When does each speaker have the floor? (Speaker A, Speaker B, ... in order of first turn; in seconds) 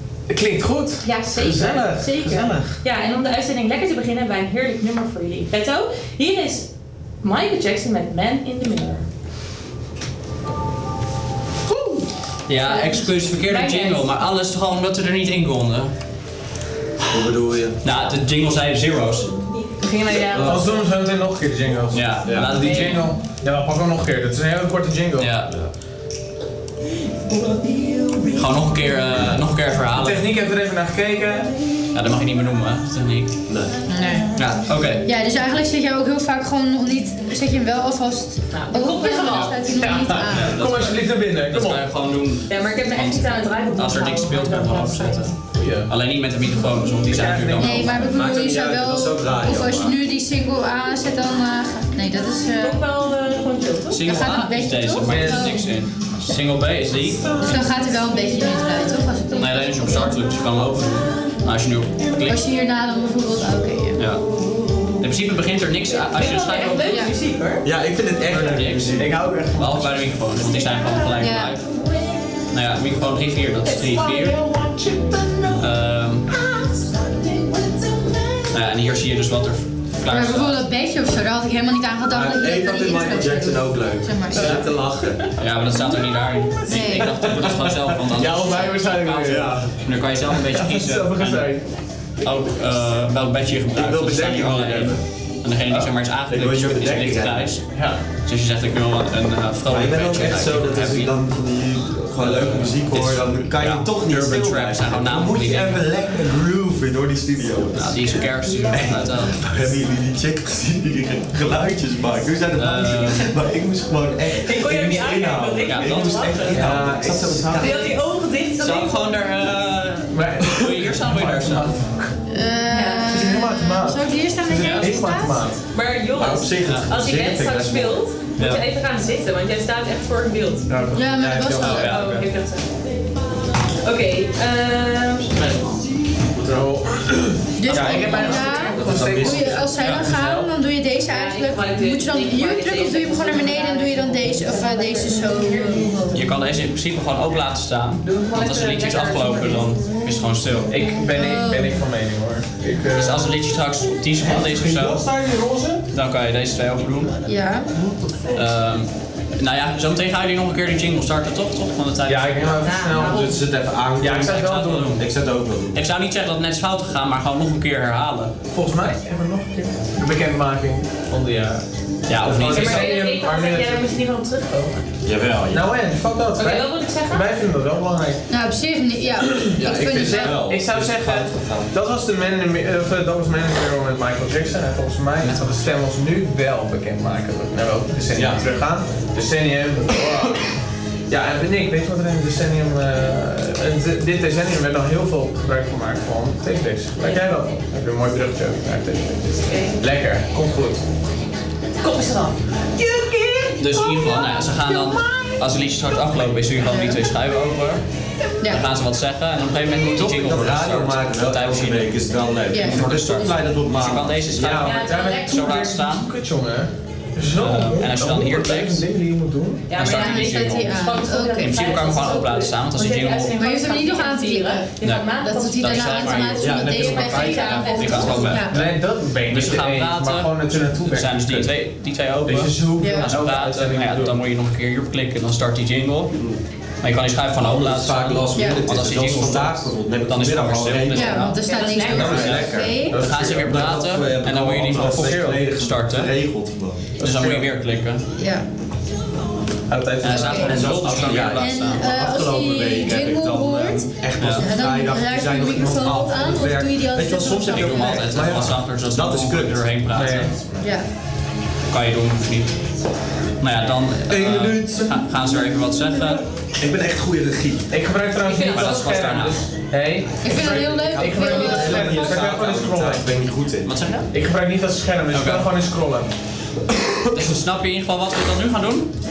Speaker A: 0.3-2.8, 20.5-25.3, 29.9-31.5, 39.8-41.8, 45.5-45.9, 47.0-48.0, 55.0-55.6, 57.0-57.6, 69.0-70.1, 74.6-75.2, 84.3-84.6, 87.2-89.6, 90.2-91.6, 97.7-98.0, 116.5-117.9, 120.1-122.1, 123.1-125.6, 130.7-131.1, 136.3-140.5, 150.7-153.2, 154.2-155.8, 162.0-163.2, 164.0-164.9, 168.5-171.7, 172.2-173.9, 175.5-178.2, 179.9-190.4, 191.1-199.3, 199.8-200.8, 214.9-219.7, 228.4-231.5, 232.2-234.2, 242.1-242.3, 242.9-243.5, 244.8-245.4, 247.0-247.5, 249.7-250.7, 259.9-260.3, 267.7-270.3, 270.9-273.1, 274.1-276.1
Speaker B: 1.0-6.7, 7.2-9.1, 11.7-12.0, 12.6-14.1, 19.8-20.7, 22.5-23.0, 38.5-39.8, 42.5-45.4, 52.5-54.1, 66.0-67.7, 73.7-75.3, 114.3-116.8, 117.5-119.2, 122.7-123.1, 125.7-130.7, 131.7-132.7, 133.8-135.3, 137.8-138.9, 141.0-146.2, 148.0-149.9, 162.6-163.4, 172.4-174.8, 176.3-177.3, 197.0-197.3, 199.4-199.8, 201.8-205.0, 214.6-215.6, 219.7-228.4, 241.2-242.4, 268.2-268.9
Speaker C: 12.5-15.9, 17.8-19.3, 21.9-23.0, 25.2-25.5, 28.3-30.2, 31.9-33.4, 34.4-35.1, 40.2-45.3, 45.9-48.1, 53.9-57.2, 59.3-62.4, 64.0-64.2, 65.0-67.0, 68.2-71.7, 72.5-74.4, 75.6-76.3, 78.5-80.6, 85.4-91.5, 92.2-101.2, 102.2-105.8, 107.7-109.3, 112.5-113.3, 115.7-116.0, 118.6-121.7, 124.6-124.9, 128.4-128.6, 131.6-132.2, 135.3-135.7, 139.8-140.1, 146.1-150.7, 152.9-155.0, 155.9-157.2, 158.3-162.5, 164.2-165.0, 165.7-168.3, 172.1-172.9, 203.6-207.8, 208.4-216.1, 217.3-218.8, 219.8-220.7, 221.4-223.4, 224.8-226.5, 227.7-228.7, 229.3-236.2, 236.8-246.1, 247.0-248.0, 250.0-251.9, 254.2-254.5, 257.4-260.3, 261.7-262.6, 263.4-266.2, 268.5-269.5, 273.6-274.1, 275.1-275.5, 277.1-278.9
Speaker D: 17.1-17.8, 20.1-20.8, 22.1-22.6, 25.4-25.7, 33.5-33.8, 48.0-50.0, 67.6-69.3, 82.1-85.2, 89.2-89.7, 93.7-95.0, 96.3-97.6, 99.7-117.7, 126.2-128.0, 131.1-132.2, 138.8-139.4, 162.7-165.8, 172.2-172.6, 175.0-175.7, 179.6-181.7, 188.1-188.5, 209.9-214.9, 226.3-228.1, 236.1-236.4, 237.5-241.2, 241.8-246.9, 250.4-260.2, 264.1-267.7, 270.3-273.7
Speaker E: 33.9-34.3, 35.0-40.7, 47.6-52.8, 54.0-55.7, 57.4-60.1, 62.2-64.0, 66.9-67.2, 71.2-71.6, 80.0-84.6, 86.7-87.2, 122.3-125.5, 130.9-132.0, 137.6-146.2, 151.1-151.8, 157.2-157.7, 178.3-180.5, 206.6-207.0, 212.5-212.8, 219.8-221.6, 223.3-228.7, 232.8-233.1, 238.3-238.6, 240.9-243.0, 248.2-248.4, 250.0-250.6, 251.2-258.1, 260.6-260.9, 270.2-272.2